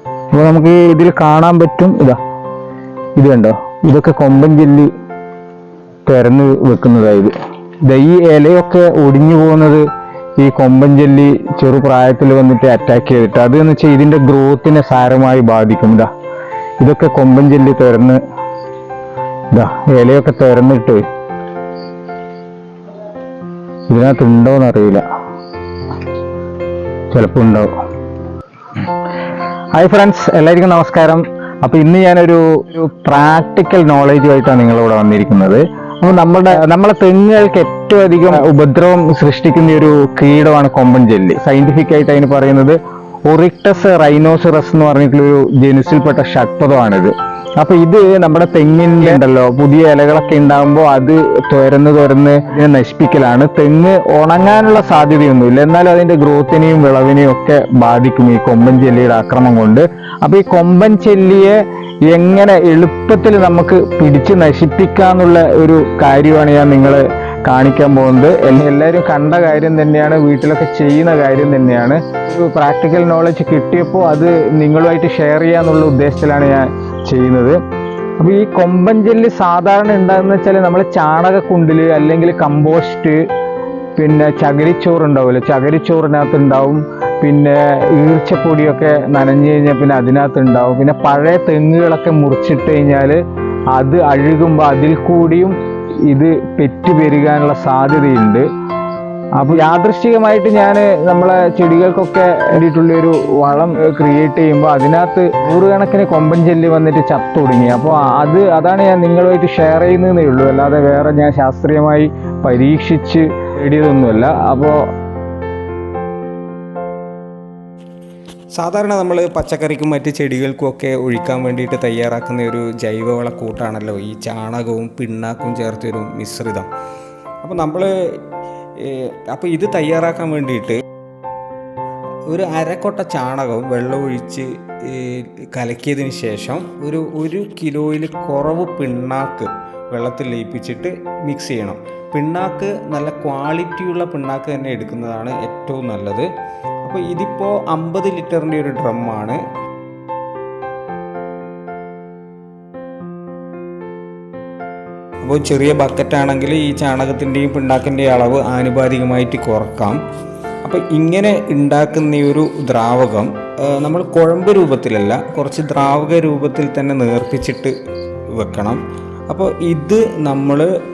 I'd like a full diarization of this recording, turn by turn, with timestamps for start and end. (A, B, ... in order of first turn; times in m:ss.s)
0:00.3-0:02.2 A
0:03.2-0:04.9 A
0:06.0-0:07.3 A
0:07.8-0:09.8 A
0:10.4-0:16.1 A
0:16.8-0:18.2 A
0:19.5-0:21.0 A
0:23.9-0:25.0 A
0:27.1-0:27.7 A
0:29.7-1:01.6 A
1:02.1-1:17.6 A
1:18.2-1:23.2 A
1:24.0-1:33.2 A
1:33.7-1:38.4 A
1:39.4-1:54.7 A
1:58.6-2:06.7 B
2:07.4-2:07.9 B
2:08.8-2:10.8 B
2:12.3-2:26.2 B
2:12.5-2:13.0 A
2:13.5-2:14.4 A
2:15.3-2:19.4 A
2:20.0-2:20.7 A
2:21.3-2:24.0 A
2:25.4-2:25.7 A
2:26.9-2:29.4 B
2:27.9-2:28.2 A
2:35.2-2:40.0 B
2:38.6-2:39.0 A
2:40.6-2:47.7 B
2:48.4-2:48.8 B
2:49.3-2:50.6 B